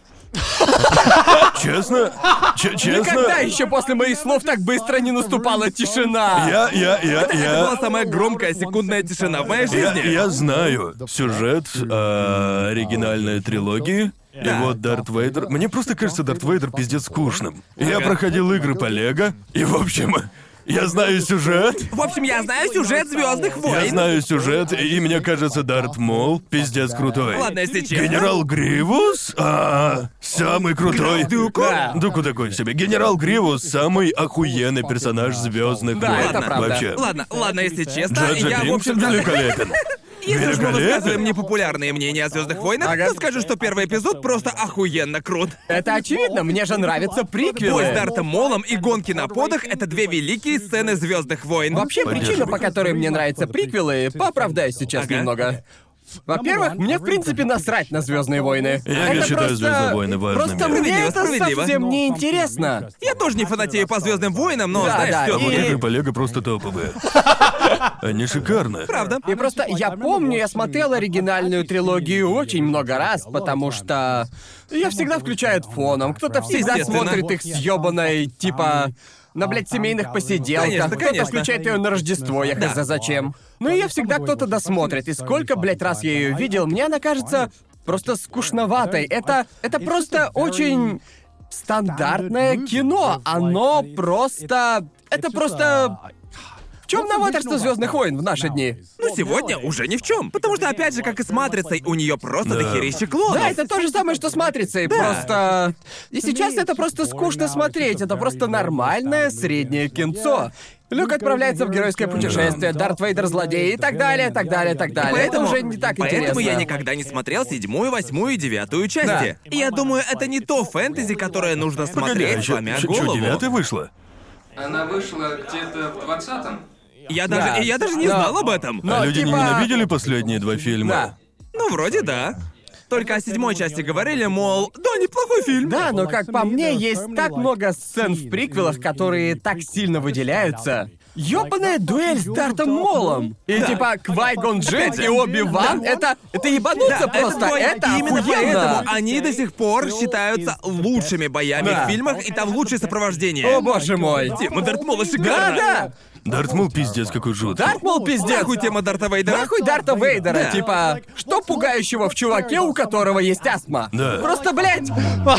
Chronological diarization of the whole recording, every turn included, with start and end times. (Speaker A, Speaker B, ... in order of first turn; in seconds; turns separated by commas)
Speaker A: 0.8-1.3, Speaker B: 1.3-3.5, Speaker A: 2.8-6.6, Speaker B: 6.3-7.8, Speaker C: 7.1-10.2, Speaker B: 9.7-21.9, Speaker C: 14.4-14.8, Speaker C: 17.8-18.2, Speaker C: 21.9-24.1, Speaker B: 23.6-37.1, Speaker C: 27.3-28.3, Speaker C: 30.9-31.9, Speaker A: 31.4-32.0, Speaker A: 35.9-36.9, Speaker C: 36.1-45.6, Speaker B: 38.1-41.2, Speaker A: 42.8-43.2, Speaker A: 45.7-48.1, Speaker C: 47.6-52.1, Speaker A: 51.7-55.6, Speaker B: 52.0-52.6, Speaker C: 55.0-55.3, Speaker A: 56.3-62.9, Speaker B: 58.9-61.0, Speaker C: 60.7-61.7, Speaker C: 63.0-65.8, Speaker A: 64.7-65.8, Speaker B: 65.2-67.0, Speaker B: 68.0-68.9, Speaker C: 68.9-69.2, Speaker A: 69.2-96.0, Speaker C: 76.5-77.3, Speaker C: 80.5-81.5, Speaker A: 96.9-98.8, Speaker C: 99.0-103.6, Speaker B: 102.4-103.0, Speaker A: 103.3-116.7, Speaker C: 104.9-105.3, Speaker B: 112.1-112.7, Speaker C: 115.0-123.4, Speaker A: 119.0-119.3, Speaker B: 121.9-123.9, Speaker D: 124.6-126.6, Speaker C: 127.1-128.9, Speaker A: 127.3-129.7, Speaker B: 128.8-131.1, Speaker A: 130.8-131.1, Speaker C: 131.5-132.4, Speaker C: 132.9-135.8, Speaker A: 135.6-148.9, Speaker C: 143.5-143.9, Speaker C: 144.7-145.8, Speaker C: 146.8-153.7, Speaker A: 151.6-152.0, Speaker A: 153.4-154.4, Speaker C: 154.3-155.7, Speaker A: 155.2-155.9, Speaker B: 156.2-157.8, Speaker A: 157.5-158.5, Speaker C: 158.2-159.5, Speaker A: 159.2-165.2, Speaker C: 160.3-160.6, Speaker B: 163.9-164.3